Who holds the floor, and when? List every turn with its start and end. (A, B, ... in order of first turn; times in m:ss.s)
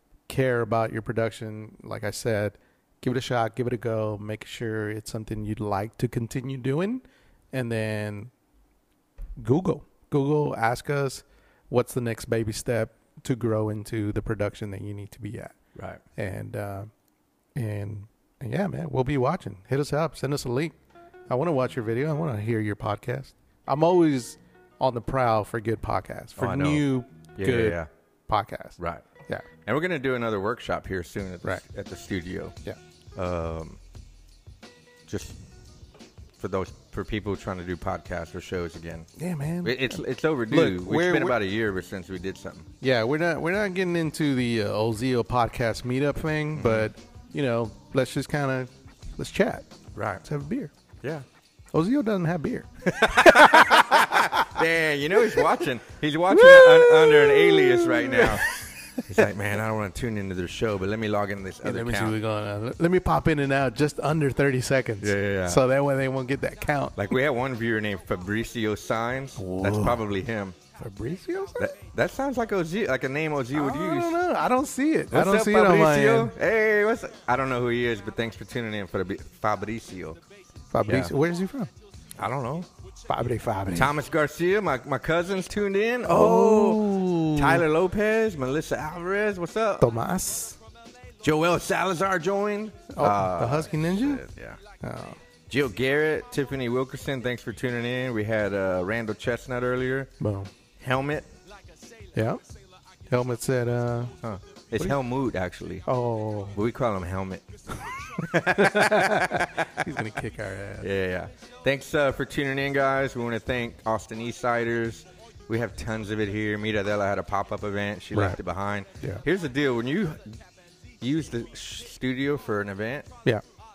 0:00.3-0:08.3 A
0:09.4-0:15.6 A
0:15.8-0:16.0 B
0:16.2-0:16.9 A
0:17.6-0:29.4 A
0:26.4-0:26.9 B
0:27.4-0:27.9 B
0:28.8-0:29.0 B
0:29.6-0:32.6 B
0:33.2-0:33.8 B
0:35.1-0:35.4 B
0:36.4-0:39.1 B
0:39.2-0:41.4 A
0:39.6-0:42.7 B
0:42.8-0:50.7 A
0:46.6-0:46.9 B
0:50.0-0:50.2 B
0:51.7-0:54.6 A
0:52.8-1:02.2 B
0:55.2-0:55.5 A
0:56.3-0:59.0 A
1:01.6-1:07.0 A
1:05.0-1:05.6 B
1:07.0-1:10.6 B
1:09.4-1:10.1 A
1:10.8-1:11.6 A
1:11.6-1:14.2 B
1:13.5-1:16.3 A
1:15.1-1:20.2 B
1:20.7-1:21.7 A
1:20.9-1:21.1 B
1:22.1-1:22.7 B
1:23.0-1:24.0 A
1:23.7-1:29.9 B
1:26.0-1:27.7 A
1:29.8-1:30.6 A
1:31.2-1:34.6 B
1:32.9-1:34.2 A
1:34.8-1:35.2 A
1:35.5-1:40.1 B
1:40.2-1:40.5 A
1:40.8-1:41.3 B
1:42.1-1:42.4 A
1:43.1-1:44.2 A
1:44.2-1:45.9 B
1:45.9-1:46.6 A
1:46.5-1:49.7 B
1:48.4-1:50.9 A
1:50.8-2:00.4 B
1:58.1-1:58.4 A
1:59.0-1:59.2 A
2:01.0-2:03.1 B